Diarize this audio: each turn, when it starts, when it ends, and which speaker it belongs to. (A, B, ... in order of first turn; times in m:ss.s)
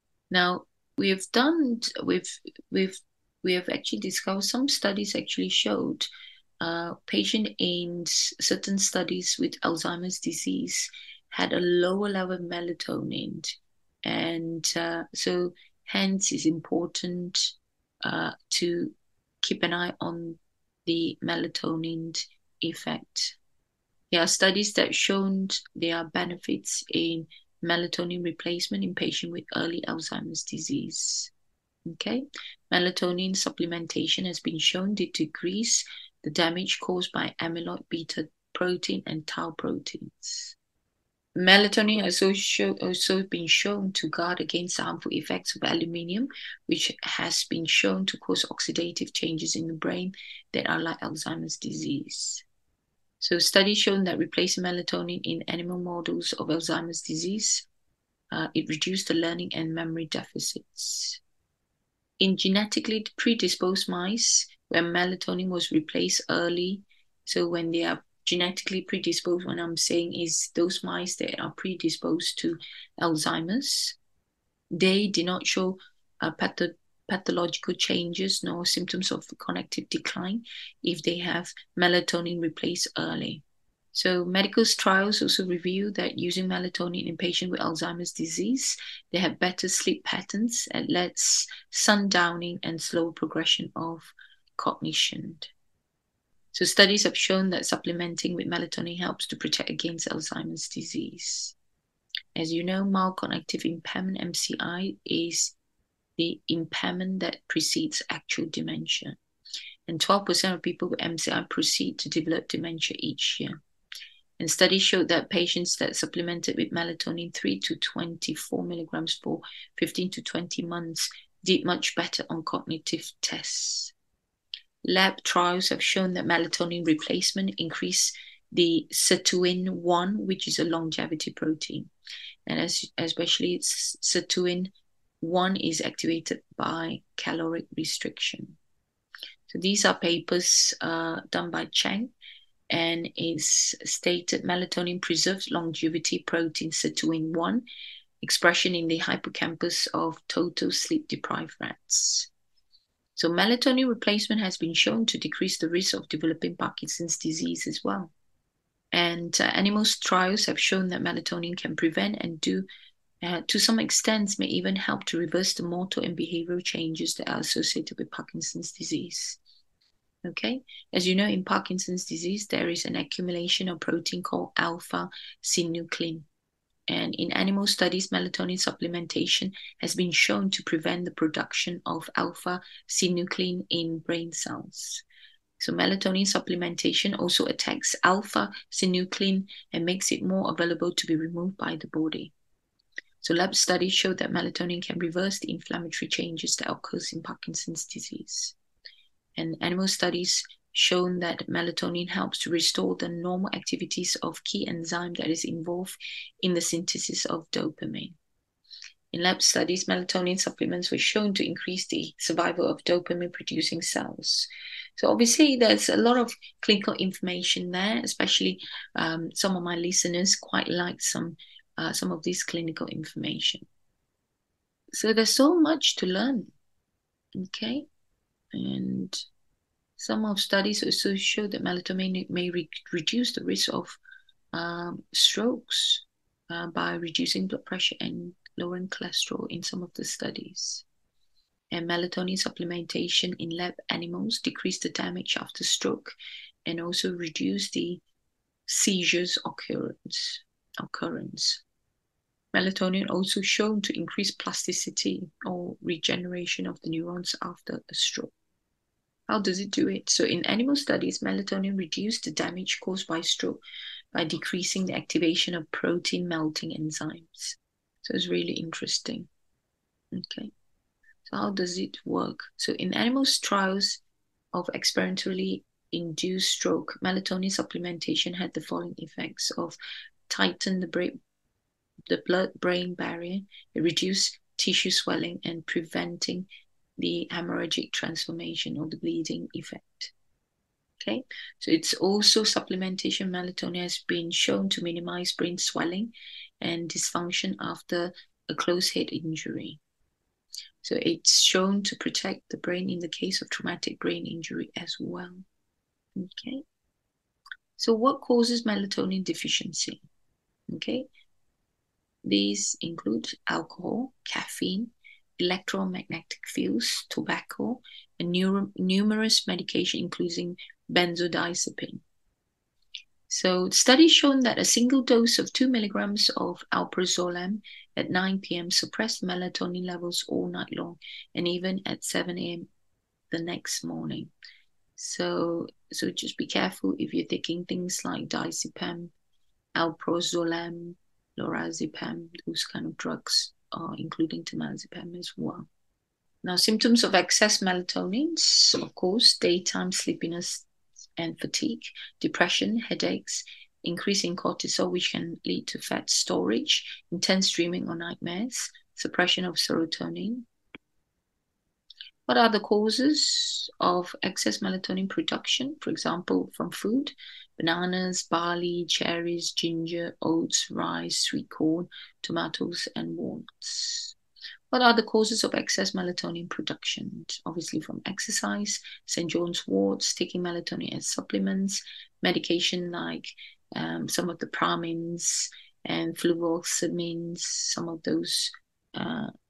0:00.3-0:06.1 A
0:06.6-0:23.4 A
0:24.1-0:31.3 A
0:31.9-0:40.6 A
0:41.4-0:52.4 A
0:53.2-0:57.7 A
0:58.3-1:01.2 A
1:02.2-1:14.0 A
1:14.7-1:35.5 A
1:36.5-1:41.6 A
1:42.4-1:45.6 A
1:46.2-1:49.2 A
1:49.9-1:53.6 A
1:54.4-2:03.9 A
2:04.8-2:11.9 A
2:12.5-2:18.6 A
2:19.5-2:22.1 A
2:22.7-2:27.6 A
2:28.2-2:32.3 A
2:33.2-2:38.1 A
2:38.9-2:42.7 A
2:43.2-2:49.4 A
2:50.2-2:56.3 A
2:56.9-3:05.0 A
3:05.6-3:12.3 A
3:13.2-3:18.6 A
3:19.4-3:28.2 A
3:29.1-3:43.6 A
3:44.9-3:46.5 A
3:47.4-3:47.9 A
3:48.5-3:49.2 A
3:50.0-3:54.0 A
3:54.5-4:00.8 A
4:01.7-4:06.2 A
4:06.7-4:08.0 A
4:08.7-4:11.6 A
4:12.5-4:18.3 A
4:19.3-4:23.6 A
4:24.1-4:29.3 A
4:30.1-4:30.5 A
4:31.3-4:34.0 A
4:34.5-4:39.8 A
4:40.3-4:41.2 A
4:42.1-4:46.5 A
4:47.0-4:50.1 A
4:51.0-4:59.8 A
5:00.8-5:05.4 A
5:06.2-5:06.6 A
5:07.8-5:10.0 A
5:10.7-5:11.1 A
5:12.2-5:22.0 A
5:23.3-5:32.7 A
5:33.3-5:34.3 A
5:35.0-5:39.1 A
5:39.8-5:45.7 A
5:46.4-5:50.7 A
5:51.2-6:00.5 A
6:02.3-6:14.2 A
6:14.7-6:29.3 A